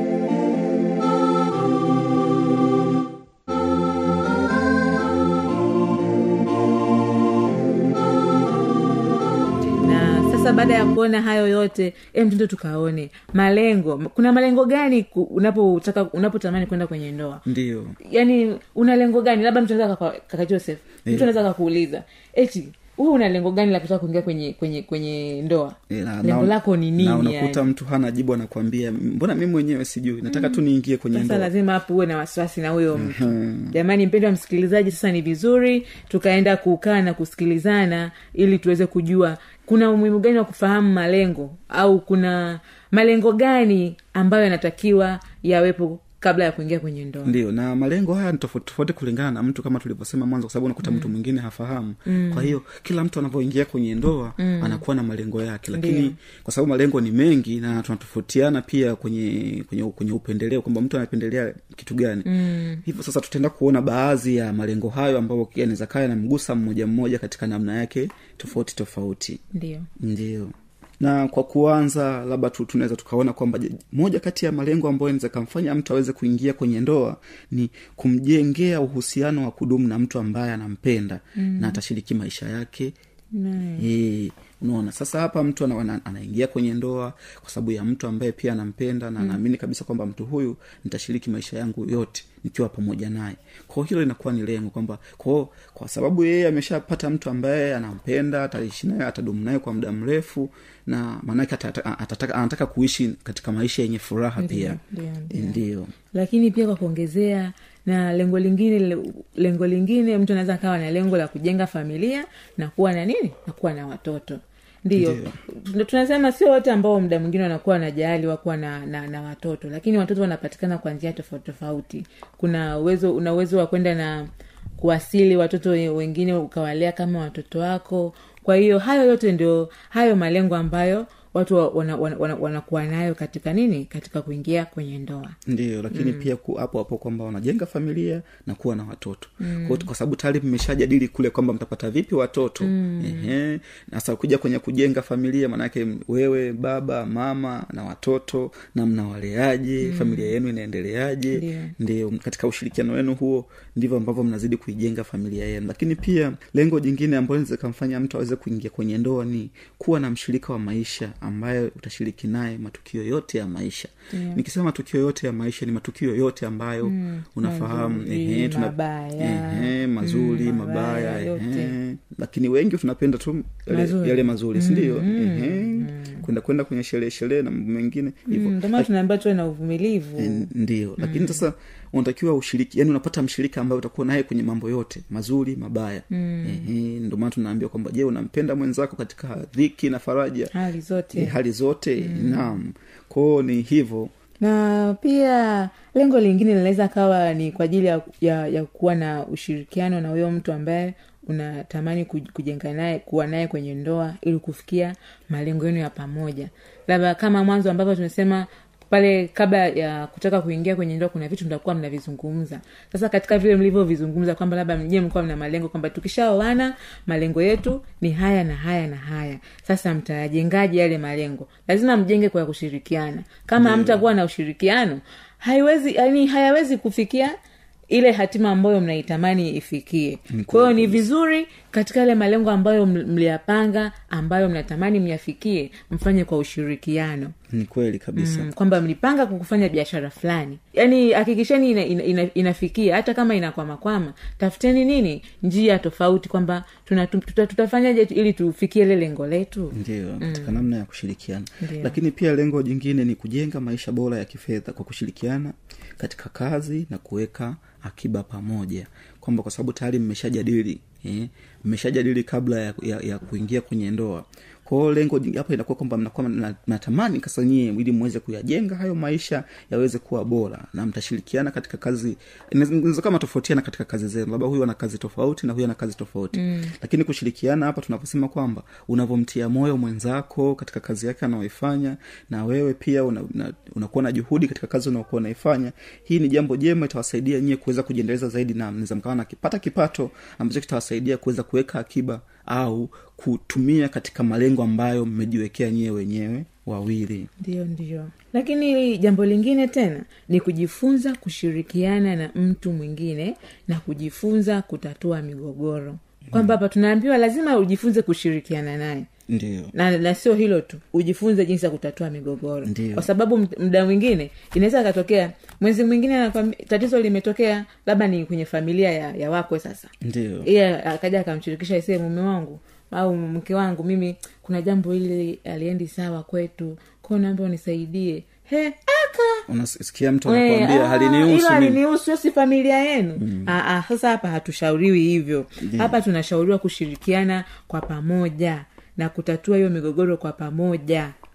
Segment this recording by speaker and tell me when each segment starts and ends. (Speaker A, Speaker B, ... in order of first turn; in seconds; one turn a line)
Speaker A: 9.8-17.4
Speaker B: 17.4-18.0
Speaker A: 18.0-27.6
Speaker B: 25.9-31.5
Speaker A: 30.3-30.6
Speaker A: 31.1-47.3
Speaker B: 32.9-33.7
Speaker B: 47.2-62.3
Speaker A: 52.0-52.5
Speaker A: 54.4-54.8
Speaker A: 55.7-56.1
Speaker A: 62.2-62.8
Speaker B: 62.8-69.4
Speaker A: 69.5-69.9
Speaker B: 70.0-82.9
Speaker A: 81.4-81.8
Speaker A: 83.3-83.8
Speaker B: 83.8-104.8
Speaker A: 104.4-105.6
Speaker B: 105.3-105.9
Speaker A: 106.1-135.4
Speaker B: 115.0-115.4
Speaker B: 135.4-178.9
Speaker A: 135.9-136.3
Speaker A: 139.4-139.9
Speaker A: 142.6-143.3
Speaker A: 149.8-150.3
Speaker A: 151.3-151.7
Speaker A: 164.1-164.4
Speaker A: 166.8-171.7
Speaker A: 173.7-176.2
Speaker A: 178.3-181.4
Speaker B: 180.2-190.5
Speaker A: 186.1-186.7
Speaker A: 190.5-191.4
Speaker B: 191.1-194.1
Speaker A: 192.0-192.6
Speaker A: 194.4-227.4
Speaker B: 223.6-224.0
Speaker A: 227.9-237.3
Speaker B: 230.3-231.0
Speaker B: 237.5-238.5
Speaker A: 238.2-250.6
Speaker B: 249.7-297.3
Speaker A: 251.6-252.0
Speaker A: 276.3-276.7
Speaker A: 297.4-309.1
Speaker B: 309.3-309.7
Speaker A: 309.7-319.9
Speaker B: 312.6-313.1
Speaker B: 320.0-320.5
Speaker A: 320.4-329.4
Speaker B: 329.5-331.8
Speaker A: 330.2-341.1
Speaker B: 333.2-333.5
Speaker B: 335.6-335.9